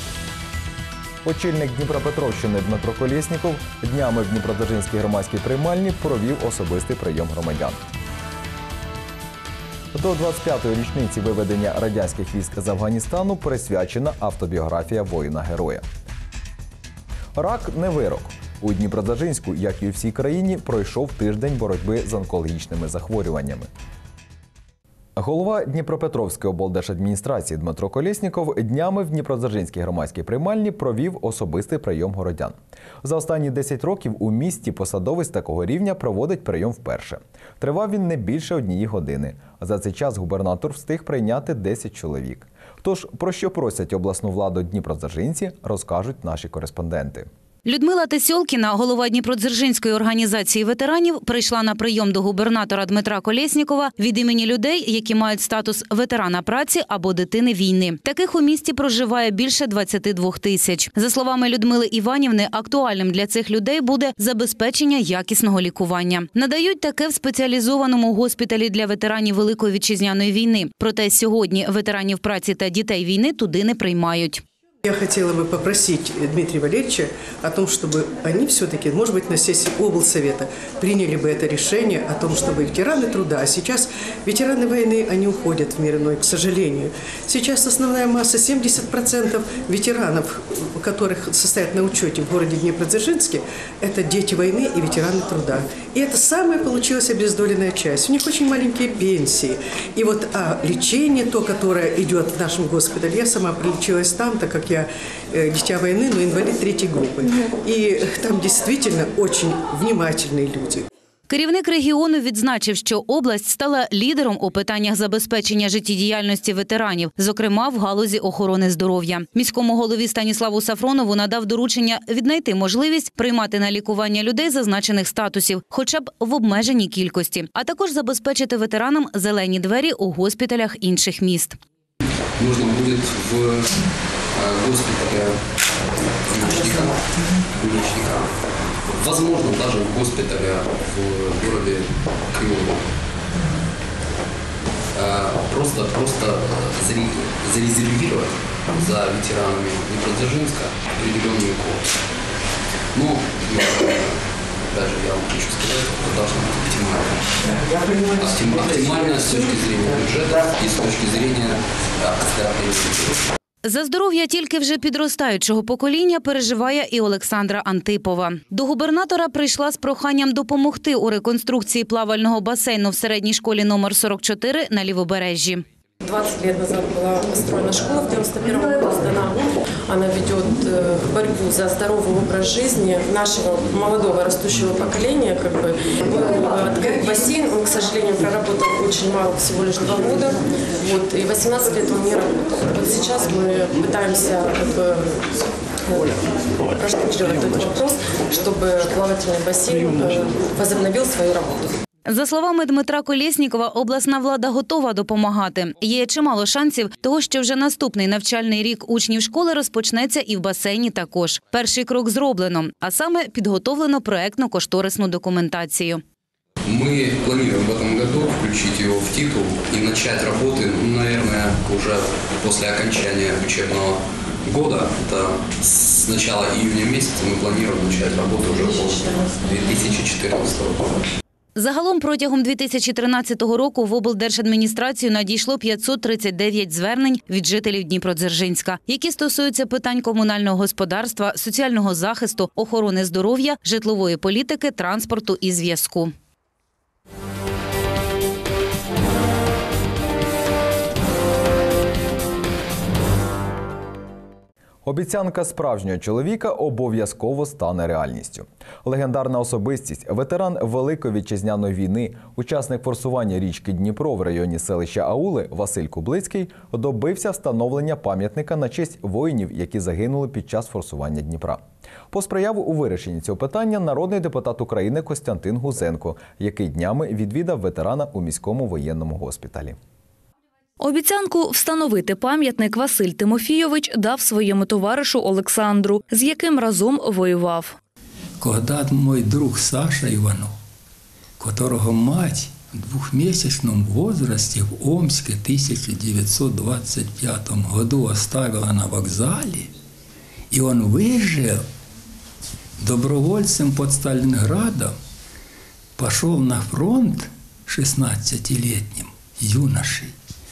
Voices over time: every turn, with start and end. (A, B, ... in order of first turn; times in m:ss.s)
0:01.2-0:07.8 A
0:09.9-0:15.8 A
0:17.4-0:23.7 A
0:25.2-0:47.3 A
0:47.6-1:14.4 B
1:14.8-1:50.8 C
1:51.3-2:11.6 B
2:12.4-2:13.6 D
2:14.3-2:15.4 D
2:16.3-2:17.0 D
2:17.5-2:18.3 D
2:18.9-2:22.9 D
2:24.9-2:31.8 D
2:32.9-2:34.1 D
2:34.7-2:37.5 D
2:38.2-2:43.2 D
2:43.6-2:55.6 B
2:56.0-3:21.8 E
3:22.1-3:36.0 B
3:36.6-3:51.0 D
3:51.5-4:06.1 B
4:14.8-4:39.8 A
4:40.8-4:47.7 F
4:48.4-4:50.6 G
4:51.4-4:59.7 G
5:00.5-5:01.7 G
5:02.8-5:05.0 G
5:06.0-5:10.1 G